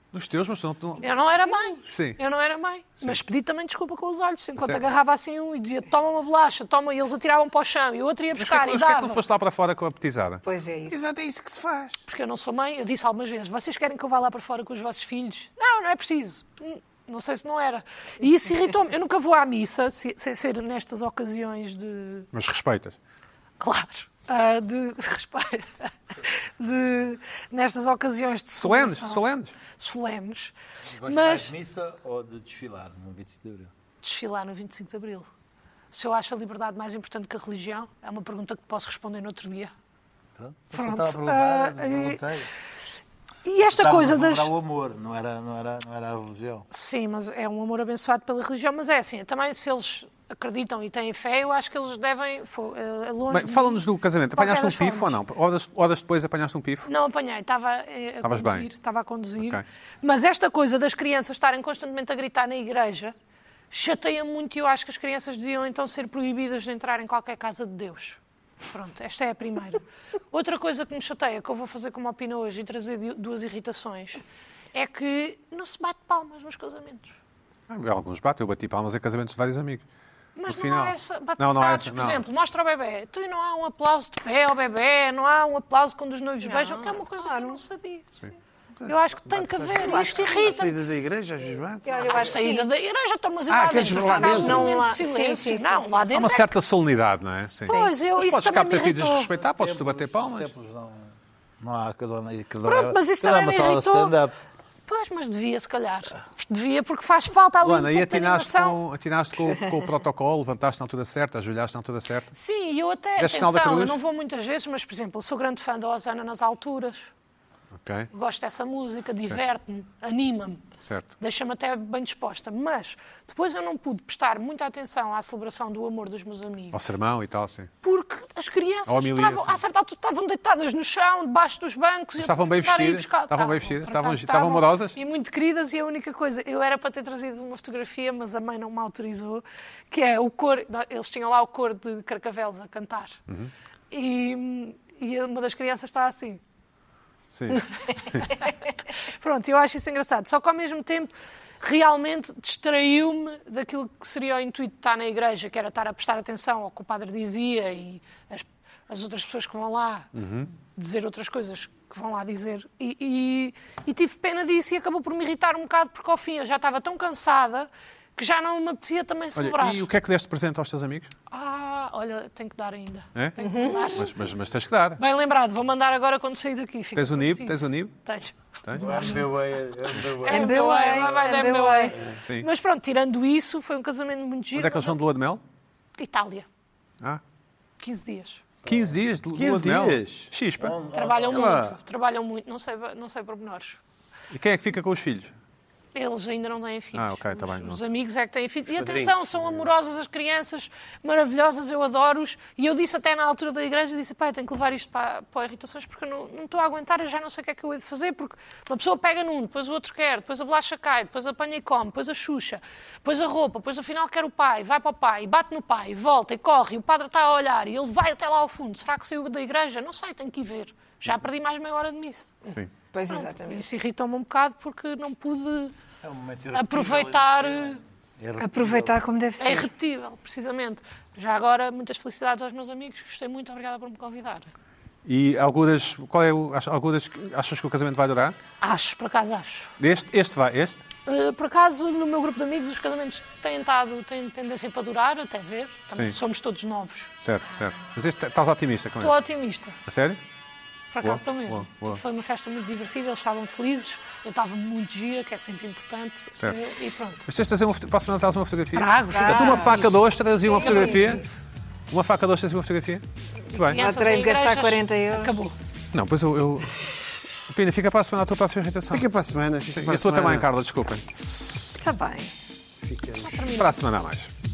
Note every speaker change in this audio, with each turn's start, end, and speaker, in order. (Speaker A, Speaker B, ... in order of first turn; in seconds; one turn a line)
Speaker A: 0.1-1.1
Speaker B: 1.0-9.2
Speaker A: 1.9-2.2
Speaker A: 8.4-10.4
Speaker C: 10.4-10.9
Speaker D: 10.9-12.0
Speaker B: 12.1-22.3
Speaker A: 22.3-23.0
Speaker B: 23.6-30.5
Speaker A: 28.5-29.5
Speaker E: 30.9-33.7
Speaker B: 31.0-31.5
Speaker B: 34.0-35.3
Speaker B: 35.9-39.7
Speaker E: 40.4-42.5
Speaker B: 40.7-42.2
Speaker B: 43.4-44.5
Speaker E: 43.6-46.6
Speaker B: 46.7-55.2
Speaker A: 53.3-56.9
Speaker B: 56.9-63.1
Speaker A: 58.2-58.7
Speaker B: 63.7-74.2
Speaker B: 74.7-77.1
Speaker A: 77.7-79.8
Speaker B: 80.3-88.0
Speaker A: 80.5-82.2
Speaker C: 86.4-87.6
Speaker D: 88.8-92.3
Speaker B: 88.8-90.8
Speaker C: 91.8-92.7
Speaker B: 92.0-96.5
Speaker D: 93.5-94.9
Speaker C: 93.9-96.1
Speaker A: 96.1-100.5
Speaker B: 97.7-99.3
Speaker C: 97.7-97.9
Speaker E: 99.4-104.3
Speaker B: 102.6-104.2
Speaker B: 104.9-108.8
Speaker A: 107.6-112.3
Speaker B: 112.3-117.1
Speaker A: 113.2-114.0
Speaker A: 117.8-118.1
Speaker B: 118.1-120.6
Speaker A: 120.8-121.1
Speaker B: 121.2-126.8
Speaker A: 126.7-127.7
Speaker B: 127.8-143.2
Speaker A: 128.9-129.6
Speaker A: 132.2-135.0
Speaker B: 143.9-146.4
Speaker A: 147.3-148.3
Speaker B: 147.5-148.5
Speaker B: 149.2-160.1
Speaker A: 160.1-160.5
Speaker B: 160.7-169.9
Speaker A: 169.3-171.1
Speaker B: 171.3-174.1
Speaker C: 173.4-174.0
Speaker A: 173.9-175.0
Speaker B: 175.0-179.3
Speaker A: 176.9-177.9
Speaker A: 178.6-179.0
Speaker E: 178.8-180.6
Speaker B: 180.2-185.0
Speaker C: 180.2-182.0
Speaker A: 184.5-185.4
Speaker B: 186.0-186.4
Speaker B: 187.8-188.4
Speaker A: 188.7-190.8
Speaker D: 189.3-190.3
Speaker E: 190.6-191.6
Speaker B: 190.9-193.8
Speaker D: 191.2-191.8
Speaker A: 194.3-195.3
Speaker B: 195.9-222.5
Speaker A: 196.9-197.8
Speaker D: 198.7-199.6
Speaker C: 222.9-223.6
Speaker B: 223.1-225.7
Speaker E: 226.0-228.9
Speaker B: 226.5-227.8
Speaker C: 228.4-229.7
Speaker B: 229.4-234.5
Speaker A: 235.1-238.4
Speaker B: 238.6-239.7
Speaker A: 239.8-240.8
Speaker B: 241.1-247.1
Speaker A: 247.2-249.1
Speaker B: 249.0-249.8
Speaker A: 249.8-250.2
Speaker B: 250.9-257.2
Speaker A: 251.0-252.0
Speaker A: 256.4-261.2
Speaker B: 258.7-261.3
Speaker C: 259.1-259.9
Speaker C: 260.5-261.2
Speaker A: 261.9-263.8
Speaker B: 263.6-265.5
Speaker C: 263.7-265.3
Speaker A: 265.9-266.8
Speaker A: 267.4-269.1
Speaker D: 268.9-270.5
Speaker A: 269.7-271.1
Speaker C: 271.7-272.3
Speaker D: 272.8-273.5
Speaker B: 273.2-273.8
Speaker A: 273.6-274.3